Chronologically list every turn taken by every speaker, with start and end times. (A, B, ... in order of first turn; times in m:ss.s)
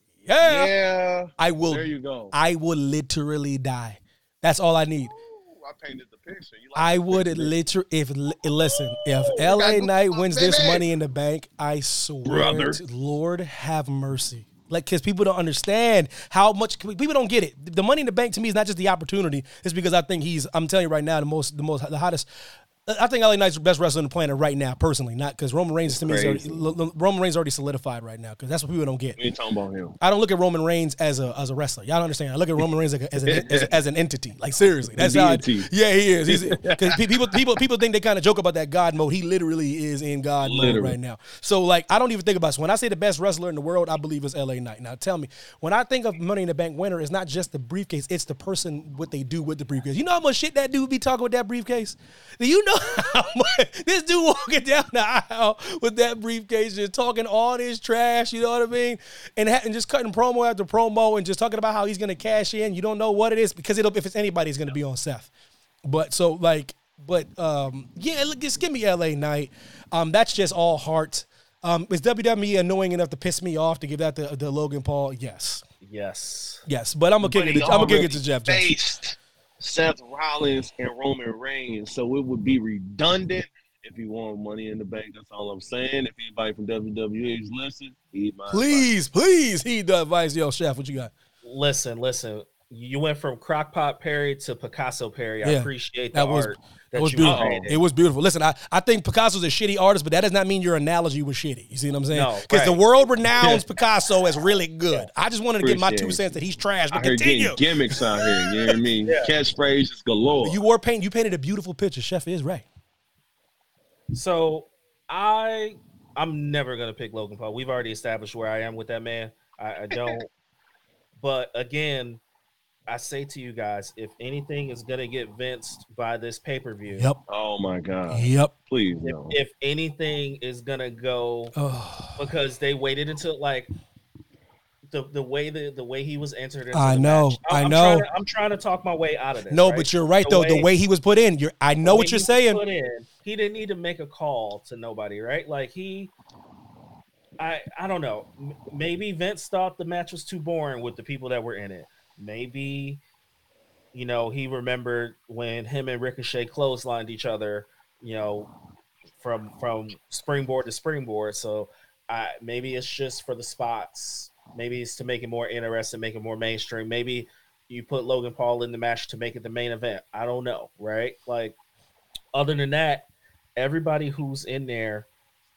0:00.2-0:00.7 A
0:00.4-0:02.3 B
0:01.4-0:05.1 A
0:05.0-0:07.5 B
0:06.8-0:22.2 A
0:08.7-0:10.8 B
0:12.2-0:12.8 B
0:22.8-0:29.2 A
0:25.9-0:26.6 B
0:29.2-0:30.0 B
0:30.0-1:05.3 A
0:33.2-0:33.7 B
0:35.0-0:35.7 B
0:36.3-0:37.1 B
0:40.4-0:41.0 B
1:05.8-1:15.6 A
1:15.8-1:16.6 C
1:16.6-1:18.7 A
1:17.2-1:28.9 B
1:28.5-1:31.1 A
1:31.4-1:37.8 C
1:35.4-1:48.7 A
1:37.2-1:37.8 B
1:42.1-1:42.8 C
1:45.6-1:46.3 B
1:46.9-1:50.6 B
1:50.4-1:52.6 A
1:54.1-2:00.3 C
1:59.9-2:00.2 B
2:01.2-2:02.2 C
2:02.9-2:07.1 C
2:07.3-2:09.3 B
2:08.1-2:08.5 A
2:09.0-2:11.5 C
2:11.6-2:12.2 A
2:12.2-2:13.7 C
2:14.9-2:20.7 C
2:16.7-2:18.0 A
2:19.5-2:22.6 A
2:21.8-2:26.1 C
2:27.4-2:33.0 C
2:33.9-2:38.5 C
2:39.2-2:51.6 C
2:52.3-2:55.1 C